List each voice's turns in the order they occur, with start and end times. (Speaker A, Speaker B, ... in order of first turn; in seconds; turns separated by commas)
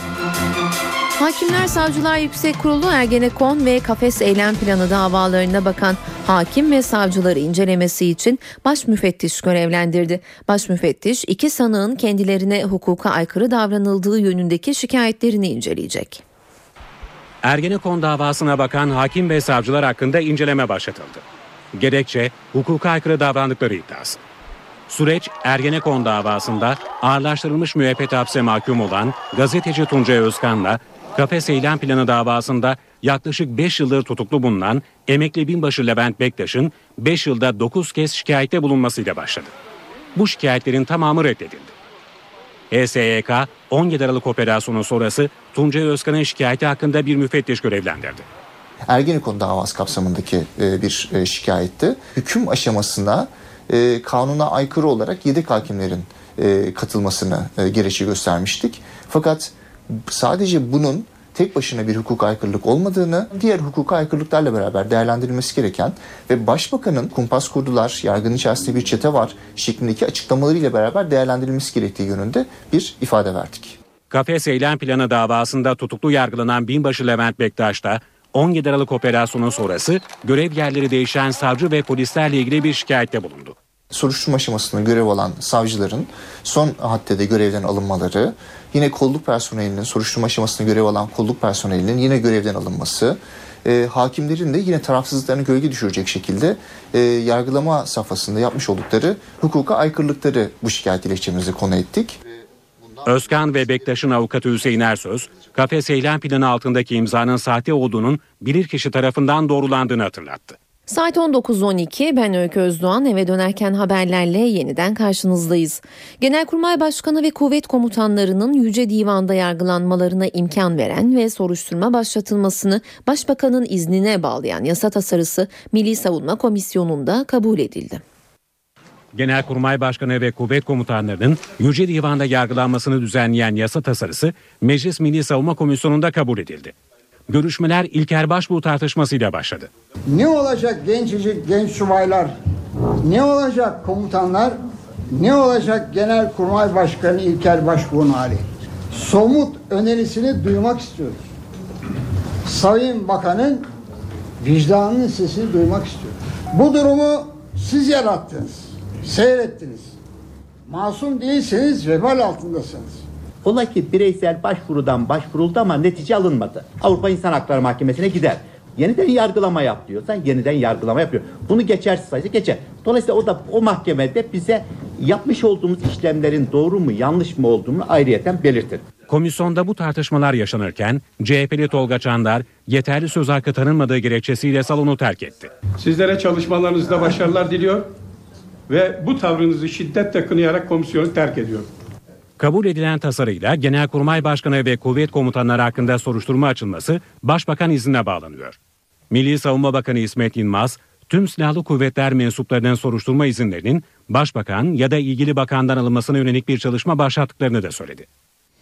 Speaker A: 1.2-16.2, Speaker B: 17.4-21.2, Speaker B: 21.7-24.2, Speaker B: 24.9-39.5, Speaker B: 40.1-41.7, Speaker B: 42.7-48.2, Speaker C: 48.9-73.8, Speaker B: 74.1-83.5, Speaker C: 83.9-102.2, Speaker B: 103.0-110.6, Speaker A: 110.9-128.0, Speaker B: 129.1-136.7, Speaker B: 137.3-139.7, Speaker D: 140.1-142.3, Speaker D: 143.1-144.5, Speaker D: 145.2-148.4, Speaker D: 149.0-151.2, Speaker D: 152.5-153.6, Speaker D: 154.4-159.8, Speaker D: 160.7-162.9, Speaker E: 163.4-178.8, Speaker B: 179.1-185.5, Speaker F: 185.8-187.9, Speaker F: 188.7-191.7, Speaker B: 192.4-198.6, Speaker B: 199.1-208.1